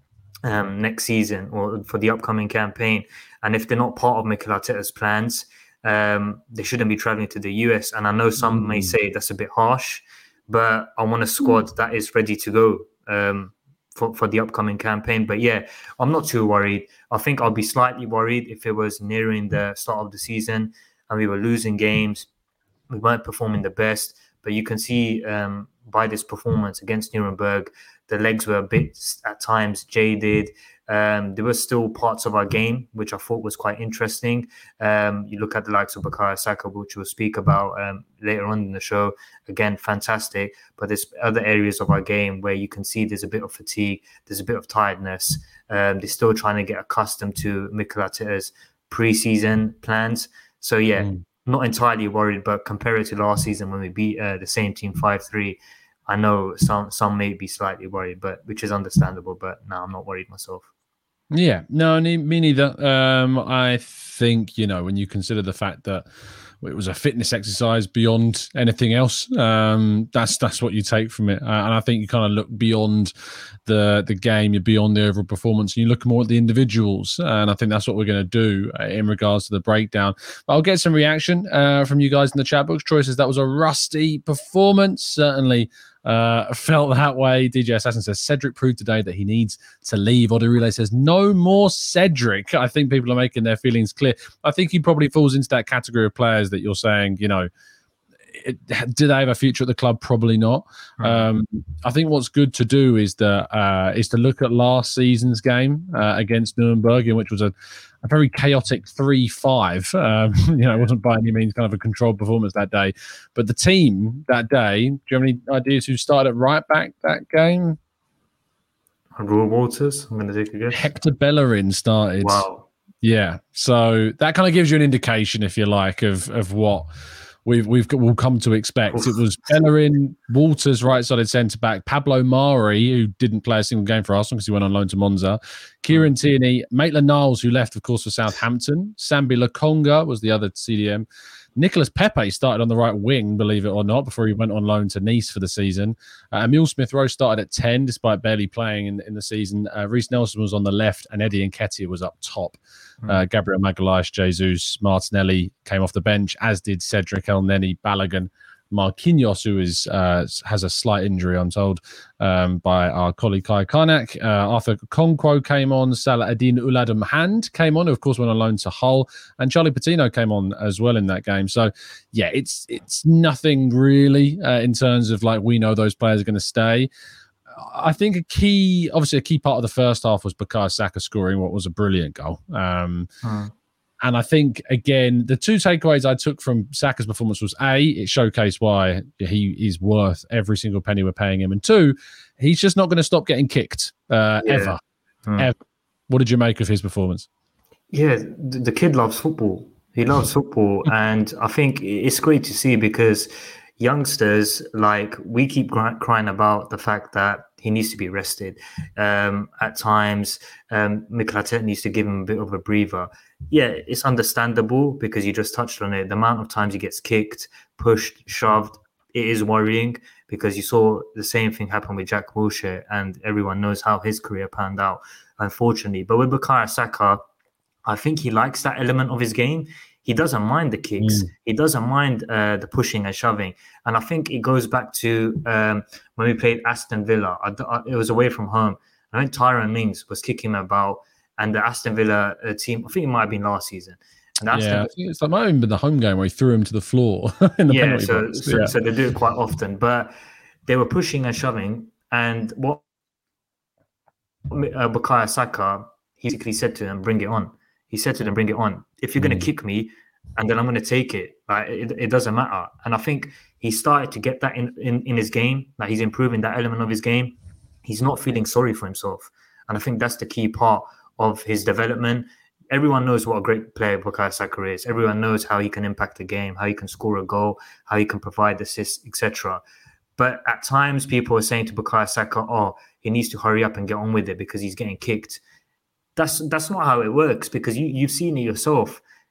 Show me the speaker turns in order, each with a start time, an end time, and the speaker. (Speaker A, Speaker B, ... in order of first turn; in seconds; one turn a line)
Speaker A: 0.4-22.3
Speaker B: 8.4-8.9
Speaker A: 22.9-60.7
Speaker B: 61.3-66.1
Speaker B: 66.6-73.1
Speaker B: 73.7-97.5
Speaker B: 98.3-117.8
Speaker A: 101.0-101.3
Speaker A: 119.2-120.9
Speaker B: 120.7-122.5
Speaker A: 122.2-122.7
Speaker B: 123.0-126.9
Speaker B: 127.5-141.1
Speaker A: 128.9-129.2
Speaker B: 141.6-176.9
Speaker B: 177.5-183.1
Speaker A: 183.2-183.5
Speaker B: 184.0-194.8
Speaker A: 194.4-195.5
Speaker B: 196.1-197.3
Speaker A: 197.9-227.2
Speaker A: 227.9-244.9
Speaker B: 231.0-231.3
Speaker B: 244.5-248.7
Speaker A: 247.7-250.1
Speaker A: 250.7-252.8
Speaker A: 254.5-279.6
Speaker B: 259.2-259.5
Speaker A: 280.2-285.4
Speaker A: 286.2-289.0